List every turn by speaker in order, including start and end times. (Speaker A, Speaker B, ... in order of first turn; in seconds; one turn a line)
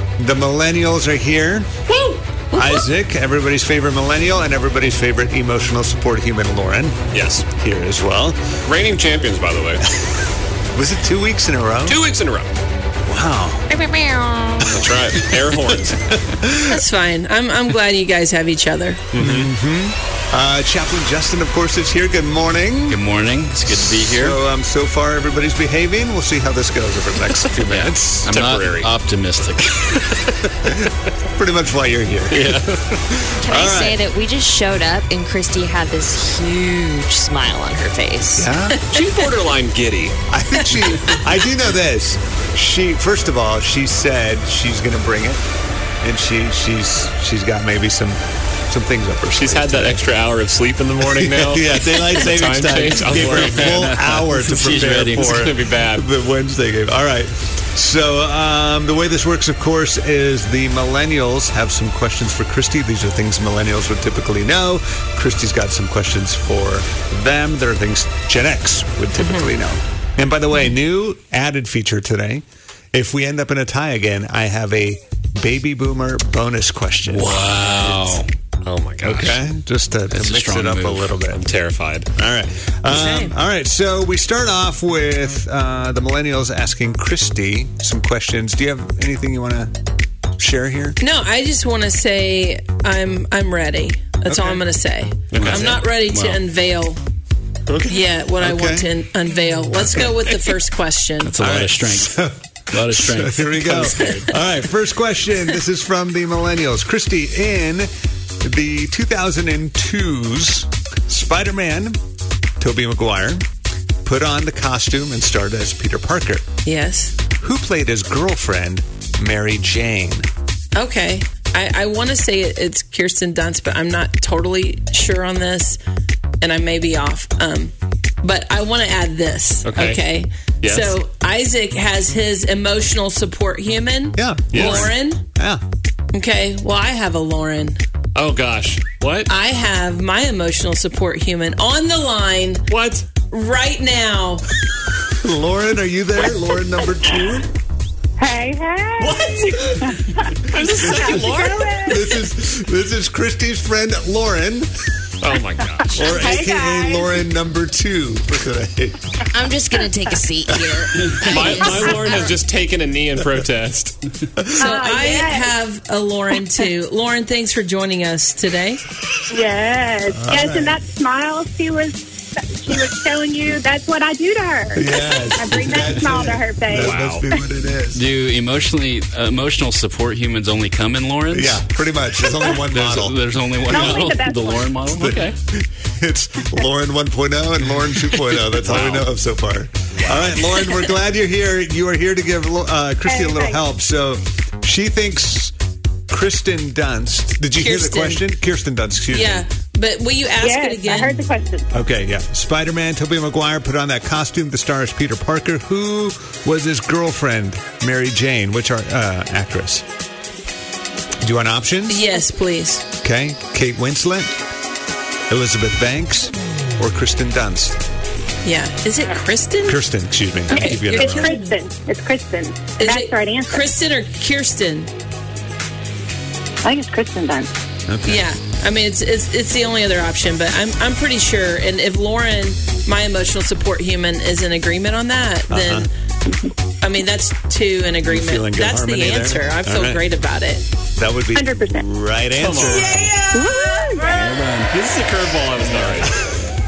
Speaker A: 0.2-1.7
Speaker A: 2.5-8.5
Speaker B: 7.1-7.5
Speaker B: 8.7-9.8
Speaker A: 10.7-12.0
Speaker B: 11.8-12.5
Speaker A: 13.0-13.7
Speaker C: 13.7-14.7
Speaker B: 14.7-16.0
Speaker A: 14.8-16.8
Speaker D: 16.7-19.1
Speaker B: 19.1-19.5
Speaker A: 19.2-23.0
Speaker E: 22.9-24.4
Speaker A: 23.7-28.3
Speaker E: 27.6-30.2
Speaker B: 28.2-28.9
Speaker A: 30.6-34.0
Speaker E: 32.3-32.6
Speaker B: 32.4-32.8
Speaker C: 33.4-38.5
Speaker A: 38.4-38.8
Speaker D: 38.7-39.2
Speaker B: 38.9-40.2
Speaker A: 40.3-45.5
Speaker D: 40.6-41.1
Speaker A: 46.0-50.0
Speaker B: 49.3-53.9
Speaker A: 51.0-77.4
Speaker E: 53.1-55.4
Speaker B: 55.1-56.1
Speaker D: 69.2-69.6
Speaker E: 77.1-78.3
Speaker B: 78.6-79.4
Speaker A: 79.0-81.4
Speaker E: 80.1-81.2
Speaker B: 81.3-82.1
Speaker A: 82.2-89.7
Speaker D: 82.9-83.3
Speaker A: 90.4-91.0
Speaker D: 91.0-97.0
Speaker A: 94.2-94.6
Speaker B: 95.3-95.7
Speaker E: 95.3-96.4
Speaker A: 95.5-95.8
Speaker A: 97.7-98.9
Speaker D: 97.9-101.3
Speaker A: 99.9-100.2
Speaker E: 101.2-102.1
Speaker A: 101.4-107.9
Speaker E: 102.7-104.3
Speaker A: 108.4-112.0
Speaker A: 112.6-113.4
Speaker A: 114.0-116.5
Speaker D: 116.6-117.2
Speaker A: 117.4-120.3
Speaker D: 120.7-125.8
Speaker D: 126.4-135.2
Speaker B: 129.6-130.0
Speaker B: 130.6-130.9
Speaker A: 134.2-135.6
Speaker B: 134.5-134.9
Speaker D: 136.1-137.8
Speaker B: 138.1-139.3
Speaker D: 139.3-142.6
Speaker B: 142.7-143.1
Speaker D: 143.3-144.4
Speaker A: 145.2-147.5
Speaker F: 148.2-149.2
Speaker B: 149.0-151.7
Speaker F: 149.8-150.2
Speaker F: 150.8-152.1
Speaker A: 150.8-154.9
Speaker B: 155.2-156.0
Speaker A: 155.9-159.0
Speaker C: 155.9-156.3
Speaker F: 156.0-157.2
Speaker C: 159.3-162.3
Speaker B: 161.2-163.9
Speaker A: 164.4-164.7
Speaker F: 164.6-165.5
Speaker D: 164.6-168.8
Speaker F: 169.3-177.4
Speaker A: 170.2-170.8
Speaker A: 174.7-178.0
Speaker B: 176.7-177.2
Speaker E: 177.9-181.6
Speaker A: 181.3-183.2
Speaker F: 182.2-182.6
Speaker E: 182.6-185.3
Speaker F: 183.7-184.8
Speaker A: 184.9-195.5
Speaker B: 188.6-189.1
Speaker B: 189.9-190.4
Speaker F: 193.1-193.6
Speaker A: 196.1-199.4
Speaker D: 197.6-198.2
Speaker D: 199.1-201.2
Speaker F: 200.4-201.7
Speaker A: 201.7-209.9
Speaker A: 211.2-212.0
Speaker D: 211.9-212.8
Speaker A: 213.0-214.3
Speaker A: 215.3-217.8
Speaker D: 218.4-219.8
Speaker A: 219.6-221.3
Speaker D: 220.5-221.5
Speaker F: 220.5-223.7
Speaker D: 222.8-224.9
Speaker F: 226.6-227.5
Speaker A: 227.9-228.3
Speaker D: 228.1-235.9
Speaker A: 235.5-235.9
Speaker D: 236.8-240.6
Speaker A: 238.0-240.0
Speaker A: 240.9-243.1
Speaker F: 241.3-241.8
Speaker B: 242.3-242.9
Speaker D: 242.7-244.3
Speaker F: 243.3-244.1
Speaker E: 244.0-244.7
Speaker B: 244.7-246.2